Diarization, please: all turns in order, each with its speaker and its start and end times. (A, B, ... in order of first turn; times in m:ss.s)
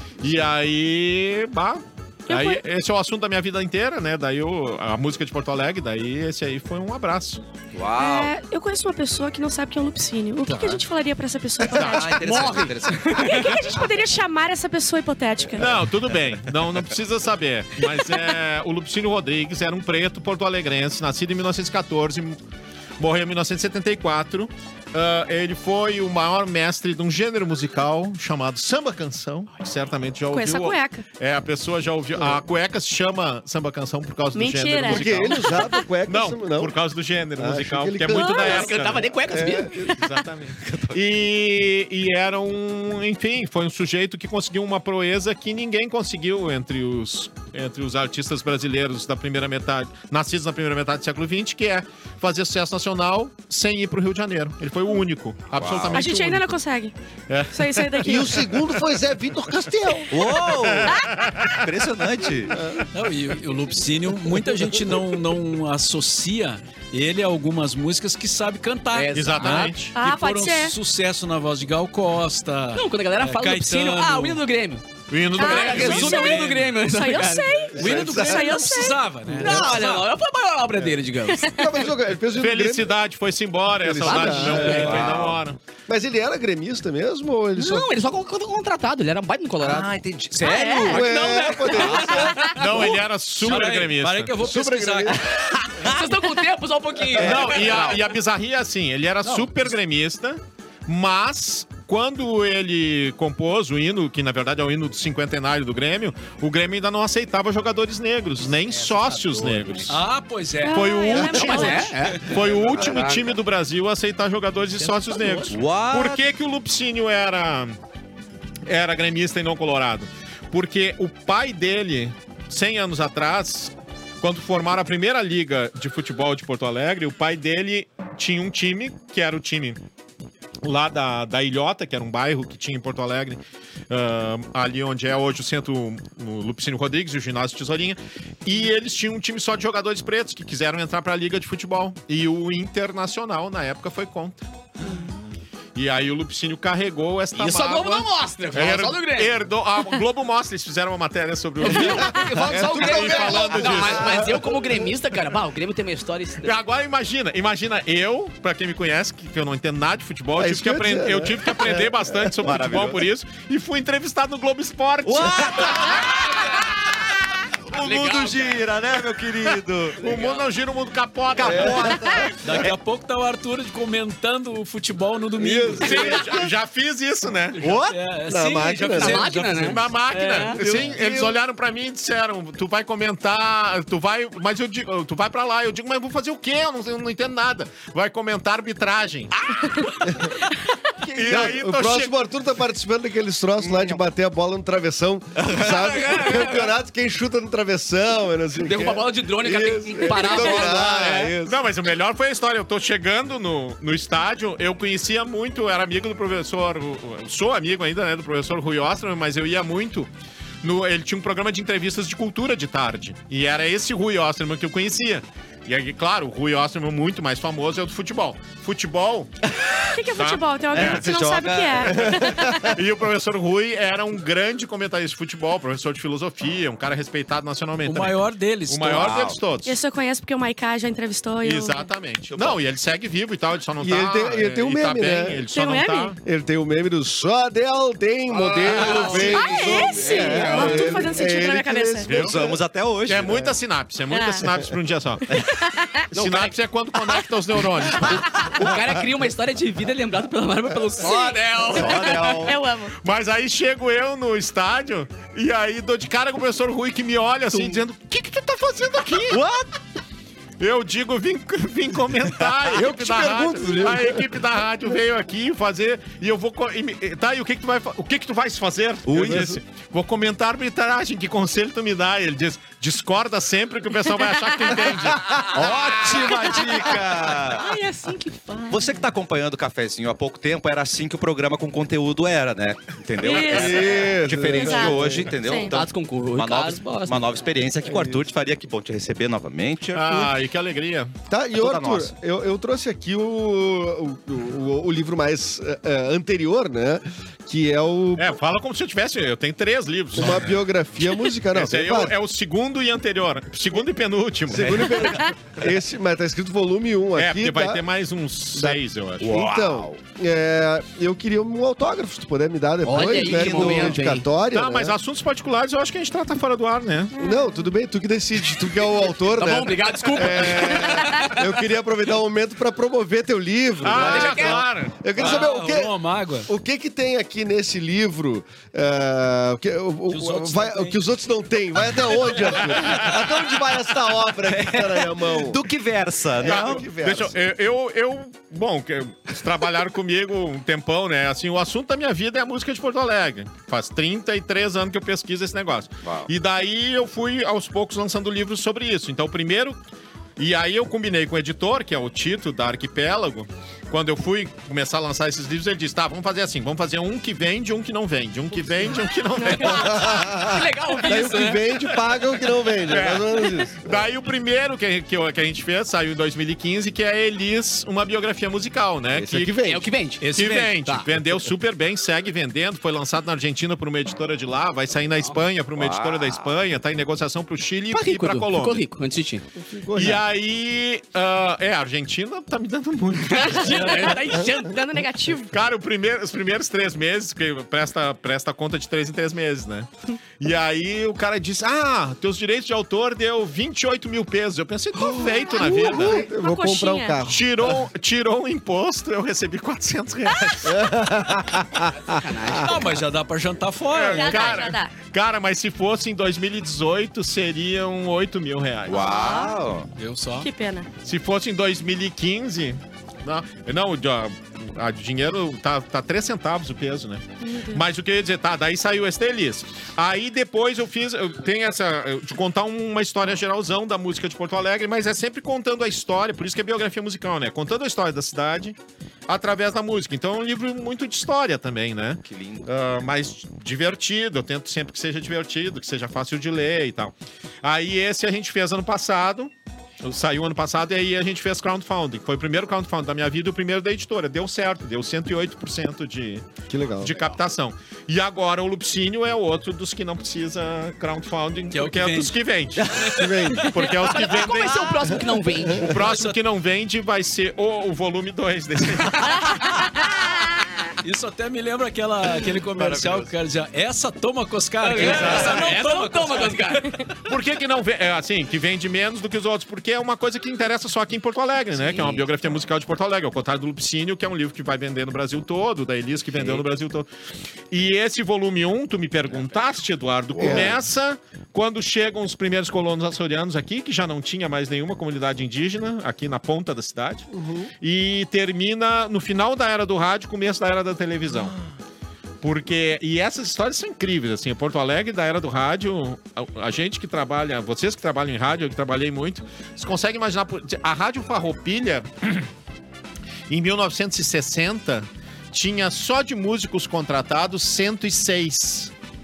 0:00.2-0:07.4 A
0:02.3-0:02.6 B
0:07.7-0:08.3 C
0:08.0-0:12.4 B
0:10.4-0:10.8 C
0:11.7-0:13.7 C
0:11.7-0:12.1 A
0:12.2-0:13.5 D
0:13.2-0:15.7 B
0:15.6-0:22.4 A
0:23.0-0:56.6 A
0:30.3-0:31.0 B
0:32.2-0:32.4 E
0:34.3-0:35.8 B
0:34.8-0:36.7 E
0:37.4-0:38.6 E
0:38.1-0:38.7 B
0:38.4-0:39.8 D
0:39.3-0:40.0 E
0:40.6-0:41.0 C
0:55.6-0:56.1 C
0:55.9-0:56.9 B
0:57.3-0:58.9 A
0:57.5-0:58.4 B
0:58.0-1:00.2 E
0:59.9-1:01.6 A
1:00.1-1:02.6 C
1:00.9-1:01.2 B
1:02.5-1:02.9 E
1:02.9-1:14.4 F
1:08.9-1:09.8 D
1:09.1-1:09.9 A
1:09.9-1:10.7 B
1:12.7-1:14.8 D
1:15.1-1:16.6 A
1:15.4-1:19.0 B
1:15.4-1:17.6 D
1:15.5-1:16.7 F
1:17.7-1:18.4 E
1:17.7-1:20.1 F
1:19.3-1:21.6 D
1:21.5-1:23.0 E
1:22.3-1:25.6 A
1:23.8-1:25.1 E
1:24.0-1:25.0 D
1:24.8-1:25.4 C
1:25.9-1:27.9 E
1:27.6-1:33.0 D
1:29.6-1:31.0 C
1:30.5-1:30.9 B
1:30.8-1:32.6 E
1:31.7-1:32.3 C
1:32.5-1:34.3 A
1:33.4-1:35.5 F
1:34.4-1:35.4 E
1:35.8-1:38.0 D
1:37.2-1:50.0 A
1:37.2-1:38.0 C
1:48.6-1:49.9 D
1:49.9-1:51.0 F
1:50.6-1:52.2 B
1:50.7-1:57.8 A
1:51.1-1:53.4 D
1:54.8-1:55.6 D
1:55.5-1:56.2 C
1:58.7-2:09.8 A
2:10.6-2:13.4 A
2:13.9-2:24.4 A
2:25.7-2:34.4 A
2:27.3-2:29.3 D
2:31.6-2:36.5 D
2:32.2-2:34.5 E
2:36.4-2:46.1 A
2:40.4-2:42.3 E
2:42.4-2:43.0 C
2:45.0-2:47.1 C
2:47.7-2:50.1 C
2:47.8-2:48.6 D
2:50.0-2:52.3 A
2:50.0-2:50.5 D
2:51.4-2:52.7 C
2:51.4-2:52.3 E
2:52.4-2:56.3 F
2:55.4-2:56.5 E
2:55.8-2:57.7 A
2:57.6-2:59.9 F
2:57.6-2:58.0 C
2:58.3-2:59.3 E
2:58.9-3:00.6 D
2:59.7-3:09.8 A
3:00.5-3:01.4 E
3:11.0-3:12.2 A
3:11.2-3:21.6 E
3:13.6-3:14.0 C
3:15.4-3:16.4 C
3:16.0-3:16.4 D
3:18.6-3:21.3 D
3:20.3-3:30.1 A
3:30.6-3:39.3 A
3:39.8-3:42.6 B
3:40.1-3:41.1 A
3:40.7-3:42.0 C
3:42.0-3:42.7 E
3:42.0-3:48.2 A
3:47.8-3:49.2 F
3:48.7-3:49.8 A
3:49.0-3:49.4 C
3:49.6-3:51.9 B
3:51.4-3:56.2 A
3:52.3-3:52.6 C
3:53.8-3:55.4 E
3:55.5-3:56.2 B
3:56.2-4:02.6 E
3:58.3-4:01.1 D
3:58.9-4:02.1 B
4:02.0-4:02.3 A
4:02.1-4:03.4 C
4:03.1-4:08.7 A
4:03.2-4:03.5 E
4:04.1-4:04.5 B
4:05.3-4:06.1 B
4:06.1-4:06.5 D
4:08.3-4:12.4 D
4:11.0-4:12.6 C
4:11.9-4:12.9 B
4:13.0-4:19.4 A
4:17.5-4:17.8 C
4:19.2-4:19.7 C
4:20.6-4:35.6 A
4:22.6-4:24.4 E
4:29.1-4:29.6 C
4:29.2-4:29.6 E
4:34.4-4:34.7 B
4:35.5-4:37.7 C
4:36.1-4:36.6 B
4:37.6-4:38.8 D
4:38.7-4:50.3 C
4:43.2-4:44.0 B
4:43.3-4:45.3 E
4:44.5-4:45.7 B
4:45.6-4:47.5 D
4:47.8-4:48.2 E
4:49.9-4:51.1 A
4:51.3-4:58.3 E
4:51.6-4:52.1 C
4:58.2-5:00.6 A
5:00.1-5:02.1 E
5:01.5-5:05.1 A
5:04.5-5:07.8 E
5:07.2-5:09.4 A
5:08.5-5:15.0 E
5:09.2-5:09.9 C
5:12.8-5:14.2 D
5:12.9-5:14.0 C
5:14.5-5:17.1 A
5:17.1-5:17.6 B
5:17.2-5:35.6 E
5:19.3-5:21.4 D
5:20.2-5:21.2 A
5:23.8-5:25.0 A
5:23.9-5:24.6 D
5:25.1-5:26.5 F
5:30.1-5:31.0 F
5:32.6-5:33.2 A
5:34.4-5:36.8 C
5:36.3-5:37.4 E
5:36.4-5:49.8 A
5:46.0-5:46.3 C
5:50.4-6:00.3 A
5:59.4-5:59.9 B
5:59.6-6:04.1 E
5:59.8-6:01.6 D
6:02.8-6:09.6 A
6:09.1-6:09.9 E
6:09.6-6:10.2 D
6:10.2-6:10.8 F
6:10.3-6:18.8 A
6:15.8-6:16.5 C
6:17.9-6:19.4 D
6:19.6-6:20.2 E
6:19.9-6:24.2 A
6:23.3-6:25.5 B
6:23.4-6:25.0 D
6:25.5-6:36.2 A
6:35.2-6:37.7 E
6:35.5-6:37.2 B
6:37.2-6:40.9 A
6:40.3-6:40.7 B
6:40.6-6:42.8 E
6:42.0-6:43.0 D
6:42.6-6:44.7 F
6:43.9-6:49.1 A
6:44.0-6:44.9 B
6:48.9-6:49.9 C
6:48.9-6:49.6 B
6:49.9-6:50.5 F
6:50.4-6:50.9 B
6:51.0-7:08.8 A
6:57.4-6:57.8 B
7:09.3-7:26.5 A
7:12.2-7:12.7 C
7:26.7-7:27.1 E
7:27.0-7:35.2 A
7:31.7-7:32.3 F
7:32.9-7:33.8 E
7:32.9-7:33.6 F
7:34.0-7:36.0 D
7:35.7-7:39.8 A
7:35.8-7:36.4 F
7:41.0-7:46.9 F
7:42.7-7:43.3 C
7:44.8-7:47.0 D
7:45.0-7:45.6 A
7:47.2-7:57.1 A
7:51.9-7:52.2 D
7:57.7-8:07.3 A
8:00.4-8:00.7 C
8:00.4-8:00.8 E
8:07.3-8:07.7 E
8:07.8-8:11.6 A
8:12.4-8:22.5 A
8:23.5-8:28.9 A